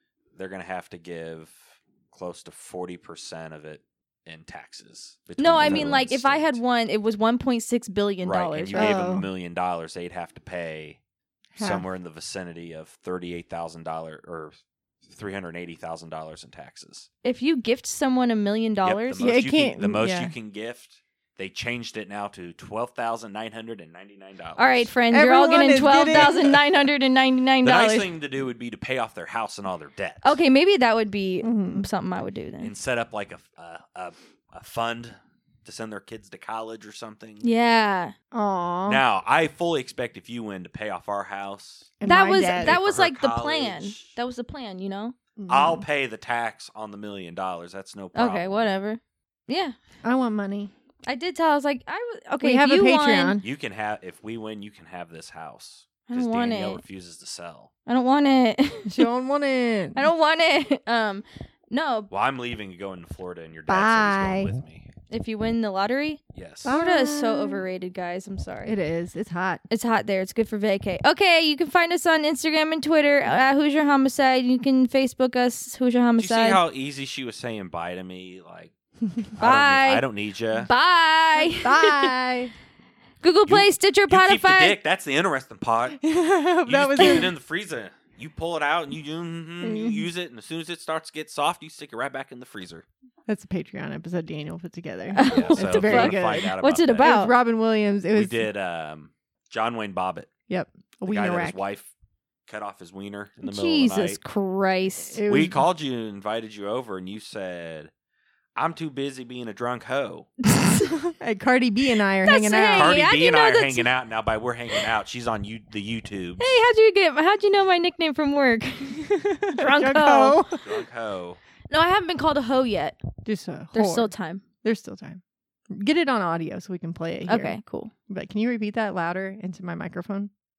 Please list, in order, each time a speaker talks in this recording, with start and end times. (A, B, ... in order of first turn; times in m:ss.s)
0:00.4-0:06.6 A
0:05.4-0:09.0 B
0:05.6-0:05.9 C
0:08.2-0:11.0 A
0:08.8-0:09.3 C
0:11.6-0:11.8 C
0:11.6-0:14.6 A
0:15.1-0:17.1 A
0:17.2-0:19.2 B
0:18.8-0:24.9 A
0:19.2-0:20.3 C
0:24.6-0:28.1 B
0:25.1-0:26.6 C
0:27.6-0:30.3 A
0:30.2-0:32.7 B
0:31.4-0:31.9 C
0:32.6-0:37.5 A
0:37.4-0:38.1 B
0:38.3-0:39.0 C
0:38.9-0:42.0 A
0:42.0-0:42.8 C
0:42.0-0:45.2 B
0:42.6-0:44.1 A
0:45.4-0:45.8 C
0:45.5-0:48.6 A
0:48.1-0:49.8 B
0:50.0-0:50.7 C
0:51.1-0:53.4 B
0:52.4-0:53.4 C
0:53.4-0:57.7 A
0:56.1-0:56.8 B
0:57.9-0:59.0 B
0:58.9-1:00.0 C
1:00.0-1:02.1 B
1:02.1-1:04.9 A
1:03.7-1:04.5 C
1:05.1-1:08.7 B
1:06.3-1:06.8 A
1:06.6-1:07.6 C
1:08.6-1:09.6 C
1:09.7-1:16.6 B
1:16.2-1:18.7 A
1:19.3-1:20.7 A
1:19.4-1:20.0 B
1:20.6-1:22.1 B
1:21.4-1:22.5 C
1:23.2-1:24.8 B
1:23.5-1:26.0 A
1:26.0-1:27.3 C
1:26.7-1:32.9 A
1:29.6-1:30.0 C
1:33.3-1:38.4 C
1:35.1-1:37.4 B
1:35.2-1:37.1 A
1:38.2-1:40.3 A
1:40.5-1:41.6 C
1:41.1-1:41.9 A
1:42.5-1:44.2 A
1:43.4-1:45.2 B
1:45.2-1:45.6 C
1:45.3-1:47.9 A
1:48.6-1:50.3 A
1:51.1-1:53.0 C
1:52.2-1:53.9 B
1:52.8-1:56.5 A
1:56.4-2:00.4 B
1:59.1-2:00.6 C
2:00.6-2:01.4 A
2:01.7-2:03.0 B
2:03.2-2:04.1 C
2:03.7-2:04.4 B
2:04.6-2:05.2 C
2:05.7-2:07.6 C
2:07.3-2:07.9 B
2:08.1-2:10.3 C